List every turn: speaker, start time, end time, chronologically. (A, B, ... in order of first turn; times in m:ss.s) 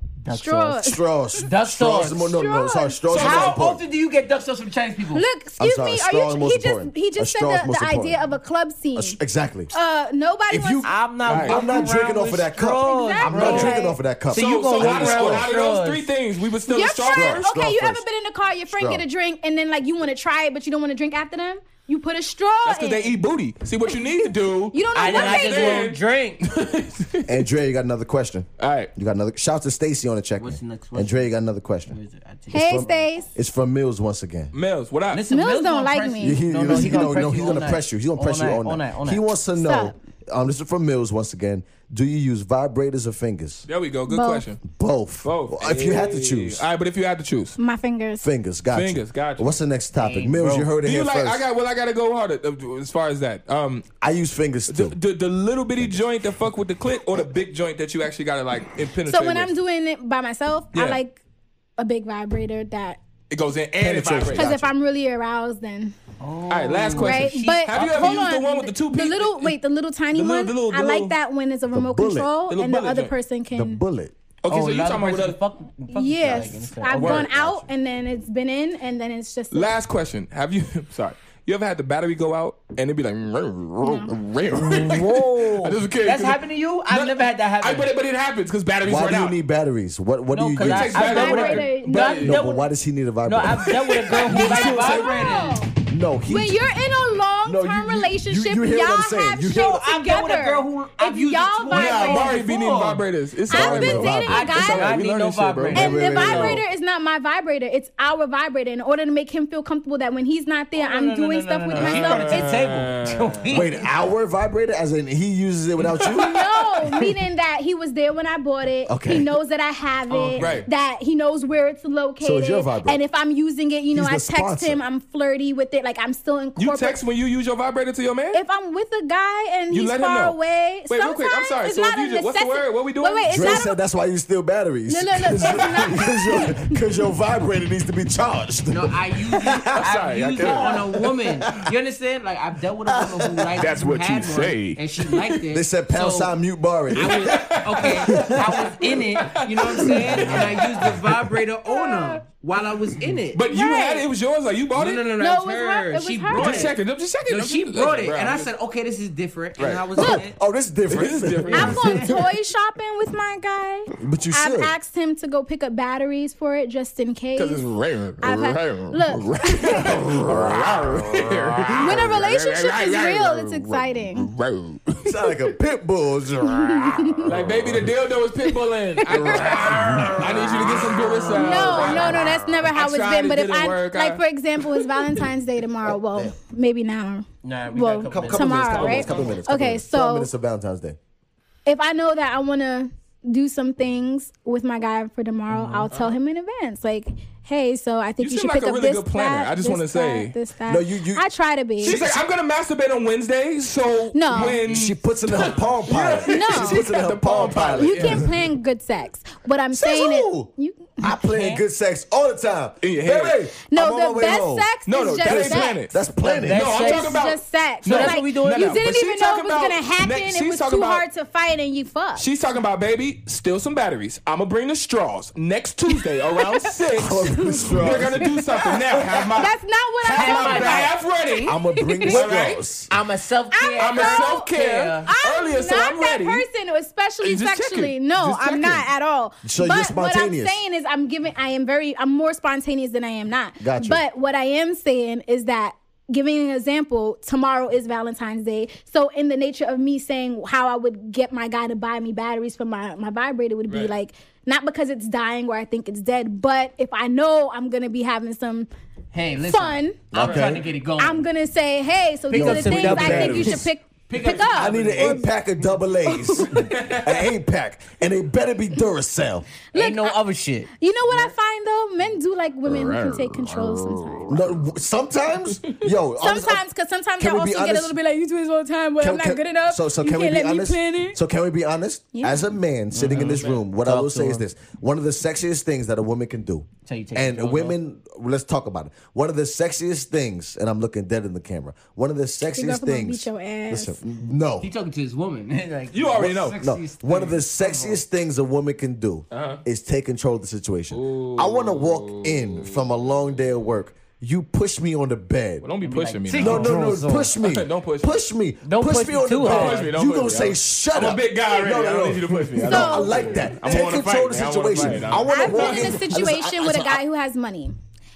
0:00.2-0:00.8 A
0:00.3-0:01.4 B
0:00.8-0:03.8 C
0:01.4-0:02.4 A
0:02.3-0:03.0 B
0:03.1-0:03.6 D
0:03.1-0:05.2 A
0:05.1-0:09.2 B
0:05.6-0:08.2 C
0:08.9-0:09.7 C
0:09.7-0:10.9 B
0:10.5-0:15.5 C
0:10.8-0:16.1 A
0:11.2-0:11.6 D
0:12.8-0:14.0 B
0:13.4-0:13.8 D
0:14.3-0:17.4 D
0:16.7-0:23.1 B
0:17.1-0:18.0 C
0:18.7-0:19.0 C
0:22.6-0:27.4 D
0:23.8-0:25.9 B
0:24.9-0:26.5 A
0:27.2-0:32.0 C
0:28.6-0:28.9 D
0:30.4-0:31.3 A
0:31.9-0:33.0 A
0:32.5-0:33.3 B
0:32.5-0:34.5 C
0:34.5-0:35.3 D
0:35.1-0:39.2 A
0:35.3-0:37.2 B
0:36.2-0:43.7 C
0:39.6-0:39.9 B
0:43.7-0:44.6 D
0:44.1-0:44.4 B
0:44.6-0:46.6 C
0:45.2-0:47.6 D
0:47.6-0:48.3 B
0:48.2-0:51.4 C
0:48.7-0:49.5 D
0:50.0-0:50.7 A
0:50.8-0:53.9 D
0:54.0-0:55.0 C
0:54.7-0:59.5 D
0:59.1-1:01.2 B
1:00.7-1:01.0 D
1:01.8-1:03.0 B
1:03.3-1:04.5 D
1:03.8-1:04.7 C
1:04.3-1:05.9 B
1:06.2-1:08.3 A
1:06.5-1:09.6 D
1:07.0-1:13.8 B
1:10.1-1:11.1 D
1:11.7-1:12.3 C
1:12.5-1:13.1 D
1:13.5-1:14.1 C
1:14.4-1:15.4 D
1:14.5-1:17.3 A
1:15.9-1:19.7 B
1:16.9-1:17.3 D
1:17.0-1:17.7 C
1:19.5-1:29.4 D
1:23.8-1:24.1 B
1:24.5-1:27.9 A
1:28.8-1:31.1 C
1:30.3-1:32.7 A
1:30.6-1:32.4 D
1:30.9-1:32.3 B
1:32.2-1:35.2 C
1:33.2-1:35.6 A
1:33.6-1:35.1 D
1:34.1-1:35.7 B
1:35.8-1:36.6 C
1:36.3-1:42.4 B
1:37.4-1:39.8 C
1:39.5-1:43.0 A
1:41.7-1:46.0 D
1:43.5-1:44.9 B
1:43.5-1:44.6 C
1:44.2-1:46.6 A
1:45.7-1:46.6 C
1:45.7-1:52.6 B
1:50.8-1:53.9 A
1:51.7-1:53.6 D
1:53.5-1:56.4 C
1:55.8-1:56.5 D
1:56.1-2:07.0 B
1:58.9-1:59.3 C
2:00.1-2:00.7 A
2:00.4-2:00.7 D
2:02.2-2:03.0 C
2:03.9-2:04.8 C
2:06.6-2:08.4 D
2:08.3-2:13.8 B
2:09.7-2:10.4 D
2:10.9-2:13.6 D
2:13.3-2:21.6 C
2:14.9-2:16.8 B
2:18.7-2:26.3 A
2:19.7-2:21.0 D
2:22.8-2:23.7 C
2:23.6-2:25.4 D
2:25.5-2:28.7 C
2:26.9-2:31.1 D
2:26.9-2:33.4 A
2:30.0-2:30.6 C
2:31.7-2:32.2 B
2:33.3-2:35.1 D
2:33.4-2:34.0 B
2:34.7-2:36.8 A
2:35.2-2:36.7 B
2:36.3-2:38.5 D
2:37.3-2:40.4 A
2:39.6-2:39.9 D
2:40.0-2:42.2 C
2:40.0-2:40.2 B
2:40.9-2:42.1 D
2:41.5-2:47.6 B
2:41.6-2:42.2 A
2:44.0-2:44.7 C
2:47.4-2:55.3 D
2:48.2-2:49.9 B
2:49.8-2:52.0 C
2:51.8-2:54.3 B
2:55.0-2:57.9 C
2:56.4-2:57.3 B
2:57.2-3:04.2 D
2:58.4-3:00.2 B
2:59.1-3:02.3 C
3:01.3-3:10.3 B
3:04.7-3:05.0 D
3:05.9-3:06.3 C
3:07.4-3:09.1 A
3:08.1-3:11.0 C
3:08.7-3:09.4 D
3:11.6-3:22.0 B
3:15.9-3:16.2 D
3:18.2-3:20.3 D
3:20.7-3:21.3 C
3:21.8-3:28.3 D
3:21.8-3:22.2 C
3:24.1-3:24.6 B
3:24.3-3:28.3 C
3:25.4-3:25.7 A
3:26.3-3:26.8 B
3:27.8-3:31.0 B
3:29.7-3:30.5 C
3:31.0-3:34.7 C
3:31.3-3:31.6 A
3:32.8-3:33.4 D
3:33.7-3:35.8 B
3:34.8-3:41.0 D
3:35.2-3:36.8 C
3:36.2-3:37.2 A
3:36.7-3:42.3 B
3:37.8-3:38.8 A
3:42.2-3:52.6 D
3:45.9-3:52.3 B
3:46.9-3:48.3 C
3:50.1-3:50.9 A
3:51.4-3:52.9 C
3:52.1-3:55.1 A
3:53.5-3:54.5 B
3:53.8-3:56.4 D
3:55.0-4:18.7 B
3:57.2-3:58.8 D
3:58.3-3:58.8 C
3:59.4-4:00.6 C
4:03.6-4:04.0 C
4:13.7-4:13.9 D
4:19.1-4:21.2 A
4:19.4-4:20.2 B
4:20.1-4:20.6 C
4:20.2-4:20.5 D
4:21.0-4:25.3 B
4:22.3-4:25.3 A
4:22.3-4:23.7 C
4:24.5-4:29.5 C
4:26.0-4:26.7 B
4:26.6-4:27.2 D
4:29.7-4:30.2 B
4:29.7-4:30.7 A
4:30.8-4:34.4 B
4:32.6-4:34.5 D
4:34.3-4:36.6 C
4:36.2-4:41.2 B
4:37.2-4:37.9 C
4:39.0-4:54.7 C
4:42.1-4:42.4 B
4:42.9-4:44.4 A
4:43.0-4:43.6 D
4:46.8-4:47.8 A
4:52.5-4:54.0 B
4:54.6-4:58.0 A
4:55.9-4:56.6 D
4:56.2-5:05.7 C
4:59.3-4:59.6 D
5:00.9-5:02.9 D
5:05.6-5:08.2 D
5:05.8-5:07.4 A
5:06.3-5:17.0 C
5:08.6-5:09.9 A
5:09.4-5:16.0 D
5:12.6-5:13.4 B
5:15.3-5:17.7 B